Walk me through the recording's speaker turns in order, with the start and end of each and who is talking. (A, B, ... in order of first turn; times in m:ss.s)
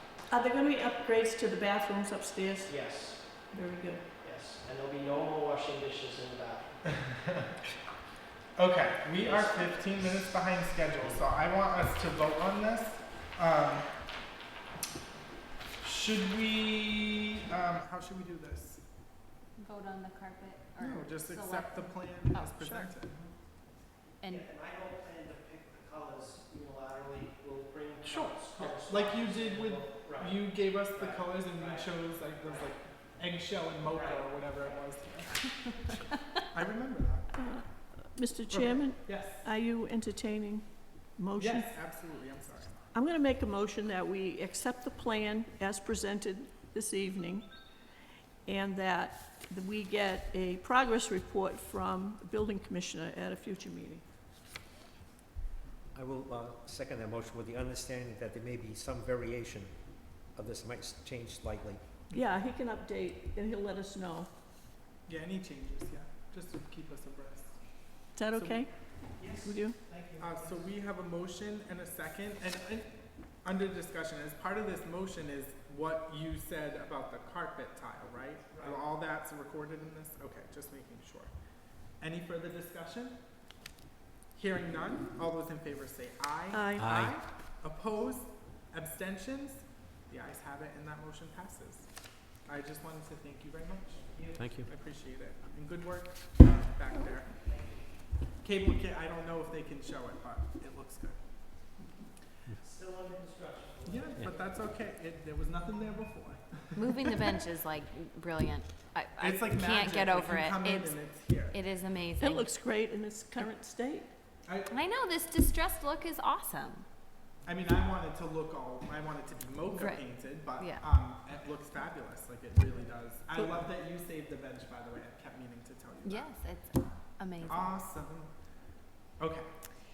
0:00.3-0:02.8 A
0:02.7-0:03.2 B
0:03.4-0:04.1 A
0:04.2-0:06.6 B
0:08.6-0:13.9 C
0:09.2-0:09.6 B
0:15.8-0:18.8 C
0:19.6-0:22.9 D
0:20.8-0:23.1 C
0:24.2-0:24.5 D
0:24.3-0:30.3 B
0:28.0-0:37.3 C
0:31.0-0:31.8 B
0:37.3-0:40.6 A
0:38.5-0:39.4 C
0:41.2-0:41.7 A
0:41.3-0:42.9 C
0:42.9-0:47.5 A
0:48.4-0:54.0 A
0:55.9-1:01.8 E
1:02.1-1:04.3 A
1:05.0-1:08.7 C
1:08.2-1:08.7 A
1:09.4-1:09.8 A
1:10.2-1:21.3 C
1:21.9-1:23.2 C
1:24.3-1:37.4 C
1:26.5-1:26.9 A
1:26.8-1:27.2 E
1:34.3-1:34.7 E
1:38.4-1:41.7 C
1:43.8-1:47.1 C
1:46.8-1:52.5 D
1:49.2-1:51.6 C
1:52.2-1:54.1 A
1:54.4-1:54.8 C
1:54.7-1:56.8 D
1:57.4-2:06.4 C
1:59.7-2:00.8 D
2:06.0-2:07.7 D
2:07.4-2:08.3 C
2:09.2-2:09.5 C